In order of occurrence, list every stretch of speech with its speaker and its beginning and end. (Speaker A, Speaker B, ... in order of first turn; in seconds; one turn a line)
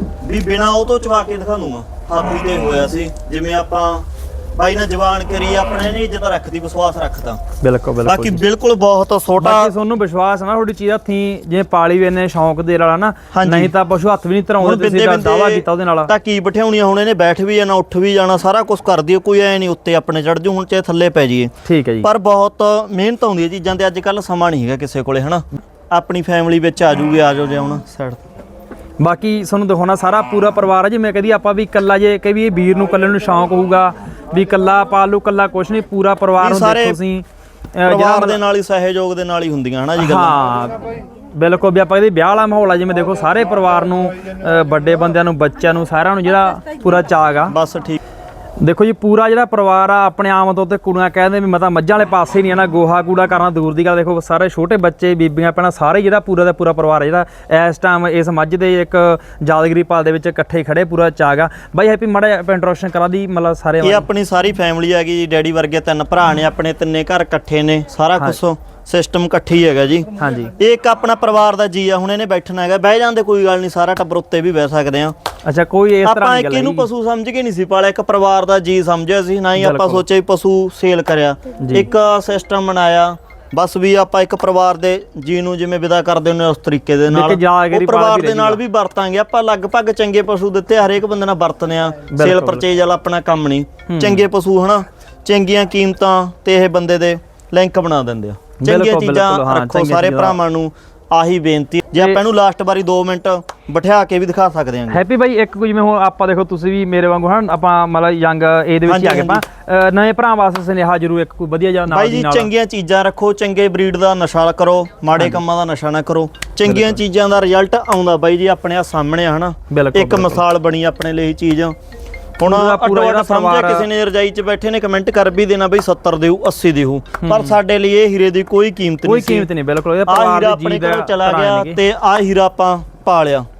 Speaker A: 0.2-7.4
Speaker B: 7.6-8.4
Speaker A: 8.0-9.7
Speaker B: 9.4-16.1
Speaker A: 13.3-13.7
Speaker A: 14.6-28.2
Speaker B: 21.6-22.1
Speaker B: 29.0-38.4
Speaker A: 36.4-37.0
Speaker A: 37.8-40.4
Speaker B: 40.0-40.8
Speaker B: 41.3-47.5
Speaker A: 47.5-48.0
Speaker B: 48.6-64.1
Speaker A: 63.8-75.1
Speaker B: 70.2-70.5
Speaker B: 75.5-76.8
Speaker A: 76.0-105.0
Speaker B: 79.6-80.0
Speaker B: 81.6-81.9
Speaker B: 87.1-88.6
Speaker B: 92.1-92.6
Speaker B: 93.9-94.2
Speaker B: 98.6-100.4
Speaker B: 104.9-112.5
Speaker A: 108.8-109.4
Speaker A: 111.9-121.7
Speaker B: 116.6-117.0
Speaker B: 119.7-120.4
Speaker A: 122.4-129.5
Speaker B: 122.4-123.9
Speaker B: 127.2-127.6
Speaker B: 129.0-131.8
Speaker A: 130.1-133.4